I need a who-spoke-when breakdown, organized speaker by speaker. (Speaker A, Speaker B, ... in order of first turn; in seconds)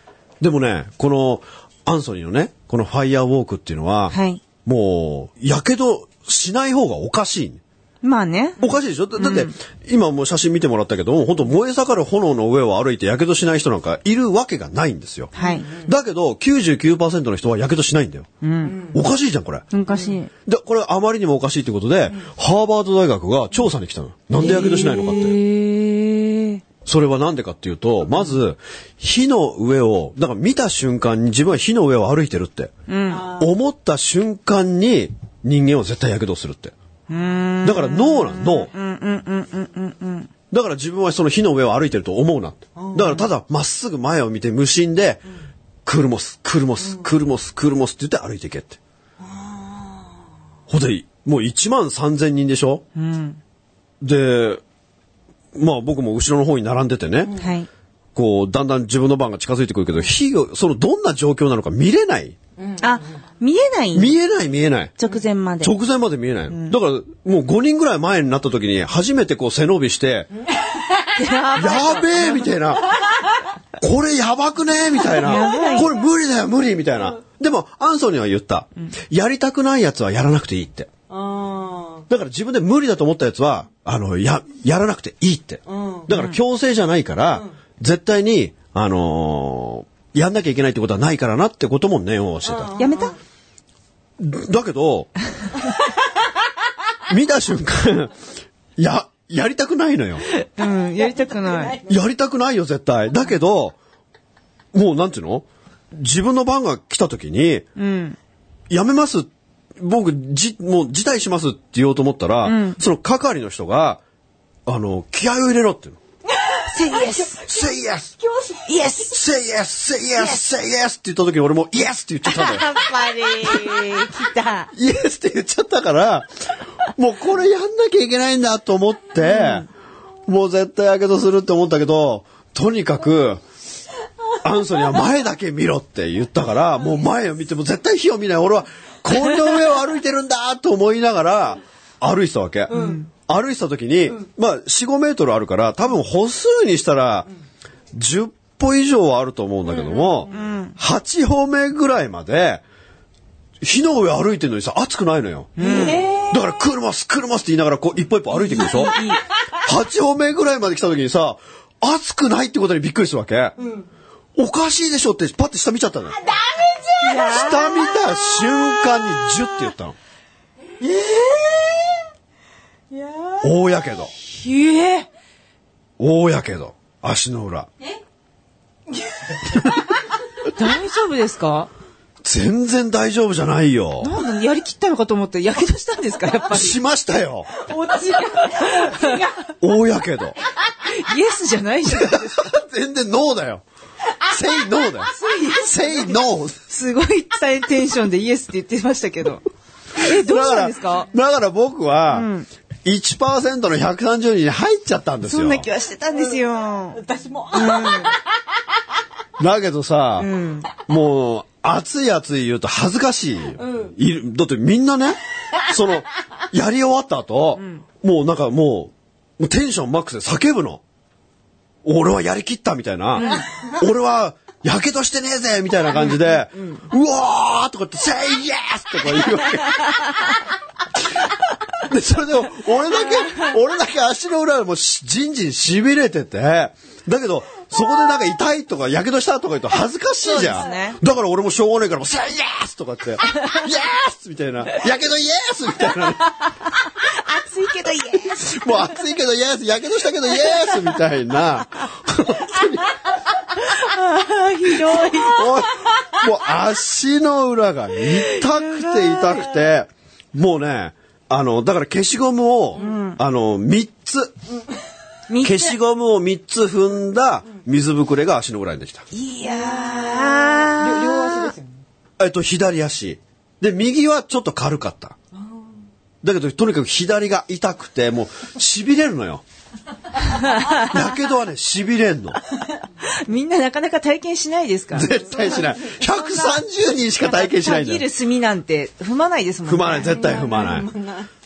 Speaker A: 0.4-7.6, 8.6-18.3, 18.9-19.7, 20.5-25.4, 26.9-32.7, 33.4-36.7, 37.6-38.7, 40.5-45.2, 45.9-48.8, 50.7-52.8, 54.0-54.6, 55.5-57.3, 58.1-62.4, 63.9-64.9, 65.6-70.3, 71.6-72.9, 73.8-80.9, 82.1-92.8, 94.2-95.1, 97.1-98.2, 98.8-100.2, 101.9-103.8, 104.7-107.7, 108.7-114.0, 114.7-116.0, 117.5-118.1, 119.1-122.7, 124.7-126.3, 127.0-129.7, 130.3-133.4, 134.4-147.3, 147.9-152.6, 153.6-159.0, 159.6-163.6, 164.4-166.2, 167.2-170.0, 173.4-174.1, 176.0-177.7, 182.2-184.1, 186.5-187.6, 189.6-190.4, 191.9-193.6, 194.2-196.6, 200.0-202.3, 202.8-205.7, 209.4-210.3, 210.8-220.8, 221.8-230.0, 231.8-246.5, 248.3-253.0, 254.9-264.4, 265.4-269.1, 272.2-275.2, 276.2-279.4, 280.8-282.4, 284.9-288.0, 289.7-290.9
Speaker B: 4.1-4.4, 8.0-9.5, 15.3-15.7, 18.4-18.9, 19.7-20.3, 24.4-26.6, 32.9-33.3, 37.1-40.3, 53.0-53.4, 57.4-57.7, 62.8-64.2, 65.0-65.8, 66.5-66.8, 71.2-72.5, 75.2-75.9, 86.1-86.4, 92.8-93.2, 100.3-101.8, 107.8-108.2, 112.4-112.8, 116.7-117.4, 118.7-119.2, 122.2-124.7, 129.2-129.7, 142.7-143.1, 150.3-150.8, 155.6-156.1, 158.3-159.2, 167.0-167.8, 174.2-175.1, 180.5-181.7, 184.0-186.8, 188.7-189.2, 190.8-192.5, 195.1-199.4, 200.0-201.1, 202.1-202.5, 205.2-207.0, 207.5-208.2, 210.2-210.7, 217.6-217.8, 223.2-223.4, 225.9-226.8, 240.2-241.0, 246.9-248.6, 253.6-255.7, 258.3-259.5, 262.8-263.2, 265.3-265.8, 269.1-271.5, 280.3-280.9, 283.0-286.6, 287.2-290.3
Speaker C: 15.4-15.9, 18.6-19.0, 33.1-33.5, 42.8-43.2, 46.8-47.1, 49.2-50.2, 57.2-57.5, 62.6-63.2, 70.5-71.2, 73.0-73.3, 75.1-75.9, 81.1-82.1, 85.7-86.1, 92.4-93.2, 100.6-102.0, 116.3-118.9, 142.7-143.0, 149.7-150.4, 155.6-156.5, 163.6-163.9, 166.2-168.9, 170.8-172.1, 172.9-173.6, 178.9-179.6, 187.5-189.5, 206.1-208.2, 213.6-213.9, 269.4-271.8, 275.4-275.7, 285.5-285.8, 290.1-291.3